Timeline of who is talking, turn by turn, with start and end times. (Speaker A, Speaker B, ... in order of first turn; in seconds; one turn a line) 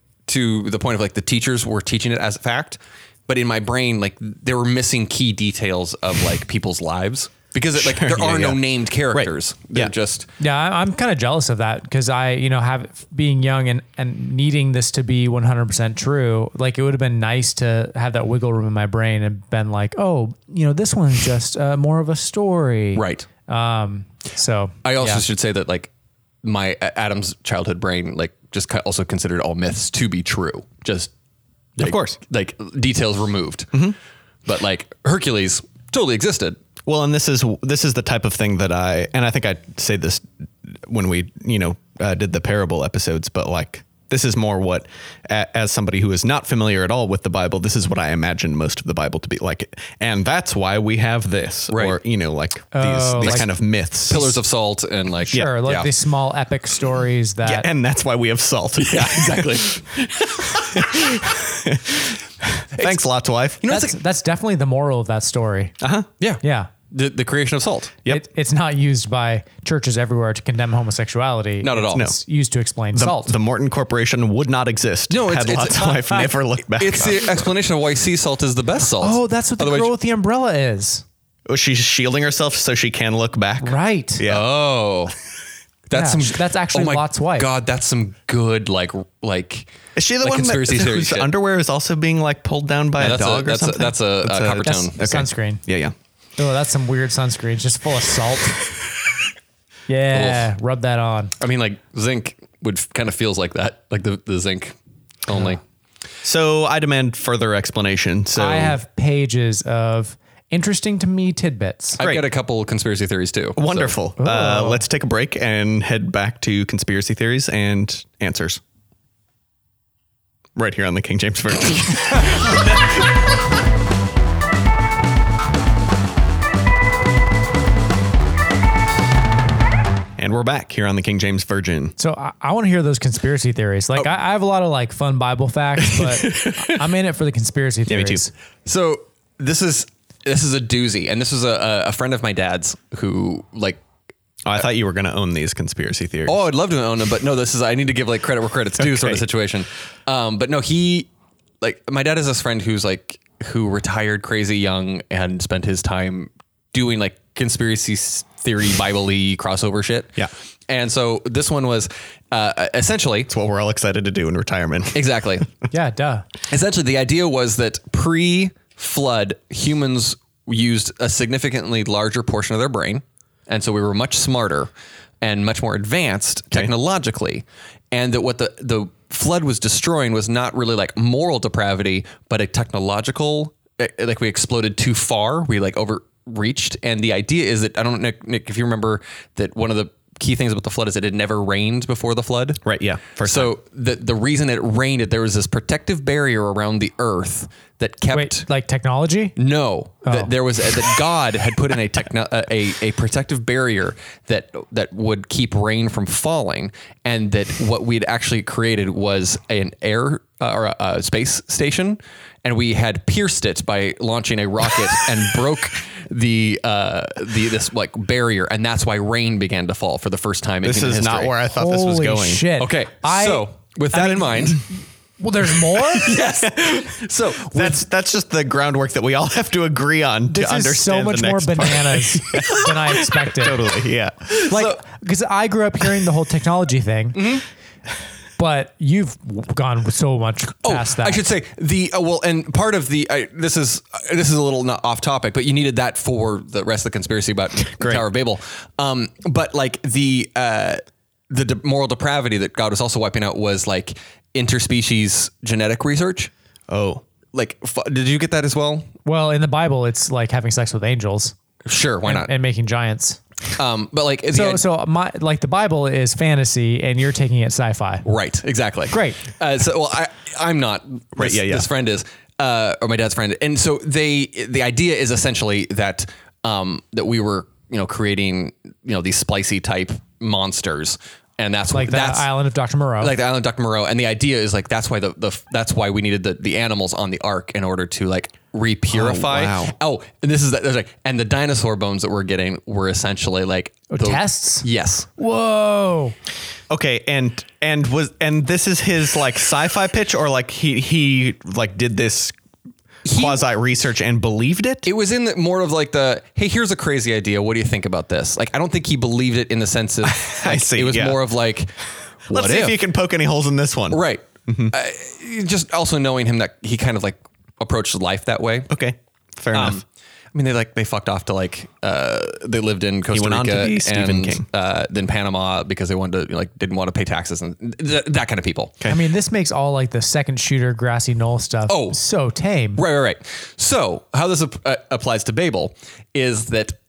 Speaker A: 0.3-10.3
Speaker B: 7.8-8.6
Speaker B: 9.1-9.9
Speaker C: 10.4-25.2
Speaker A: 22.9-23.3
Speaker A: 24.9-25.9
Speaker A: 26.4-31.1
Speaker A: 31.8-33.8
Speaker B: 31.8-32.2
Speaker A: 34.5-36.6
Speaker B: 36.9-54.4
Speaker A: 51.7-52.0
Speaker C: 52.7-53.5
Speaker A: 53.2-53.5
Speaker A: 54.1-55.9
Speaker C: 55.3-57.7
Speaker B: 57.4-59.7
Speaker A: 58.8-61.0
Speaker B: 60.4-63.6
Speaker A: 63.6-64.0
Speaker C: 63.7-65.8
Speaker B: 65.8-66.1
Speaker A: 66.2-68.0
Speaker C: 66.4-66.7
Speaker C: 68.1-73.3
Speaker A: 71.6-72.0
Speaker B: 72.9-77.5
Speaker A: 75.1-79.9
Speaker C: 79.0-81.0
Speaker B: 81.5-84.5
Speaker C: 83.6-84.2
Speaker A: 84.2-85.1
Speaker A: 85.9-91.3
Speaker C: 85.9-87.5
Speaker B: 90.0-95.9
Speaker A: 93.0-95.0
Speaker C: 94.8-95.6
Speaker C: 96.4-98.6
Speaker C: 99.9-101.3
Speaker A: 100.1-100.5
Speaker A: 101.4-104.8
Speaker A: 105.2-105.6
Speaker B: 106.2-108.8
Speaker C: 108.3-112.0
Speaker A: 112.0-114.0
Speaker B: 113.6-118.6
Speaker C: 114.2-114.8
Speaker B: 120.5-122.9
Speaker B: 130.2-131.9
Speaker C: 132.0-138.3
Speaker B: 135.9-136.7
Speaker B: 137.9-138.2
Speaker A: 138.7-143.8
Speaker B: 144.4-146.4
Speaker A: 146.3-151.1
Speaker B: 148.9-149.2
Speaker A: 151.6-160.2
Speaker A: 160.7-163.3
Speaker B: 163.3-165.0
Speaker A: 164.9-165.5
Speaker C: 165.7-166.2
Speaker A: 166.5-174.7
Speaker A: 175.2-192.6
Speaker B: 192.6-193.5
Speaker A: 193.2-198.5
Speaker C: 198.1-199.3
Speaker A: 199.4-221.3
Speaker C: 200.0-200.3
Speaker B: 220.6-222.5
Speaker C: 221.5-226.1
Speaker A: 222.6-224.6
Speaker A: 225.9-227.8
Speaker B: 226.4-226.9
Speaker B: 227.5-234.3
Speaker C: 230.3-233.6
Speaker A: 234.3-234.8
Speaker C: 234.5-237.4
Speaker A: 237.1-237.4
Speaker C: 238.4-241.2
Speaker A: 240.6-256.3
Speaker B: 247.8-248.0
Speaker B: 256.7-257.0
Speaker A: 257.3-258.9
Speaker C: 259.0-261.4
Speaker A: 261.6-262.3
Speaker C: 262.1-263.2
Speaker A: 263.5-264.6
Speaker C: 264.3-268.1
Speaker A: 268.0-282.3
Speaker C: 268.9-269.2
Speaker B: 271.1-271.7
Speaker C: 281.7-283.1
Speaker A: 283.0-295.1
Speaker B: 288.9-289.7
Speaker C: 293.9-294.6
Speaker C: 295.2-296.1
Speaker B: 296.7-302.3
Speaker A: 303.1-303.4
Speaker B: 303.1-304.9
Speaker A: 304.9-311.7
Speaker B: 310.0-311.2
Speaker A: 312.3-312.8
Speaker B: 312.3-314.7
Speaker A: 313.9-318.7
Speaker B: 318.7-319.8
Speaker A: 319.5-328.8
Speaker B: 323.1-324.5
Speaker C: 328.9-332.8
Speaker A: 331.7-332.0
Speaker A: 332.8-336.8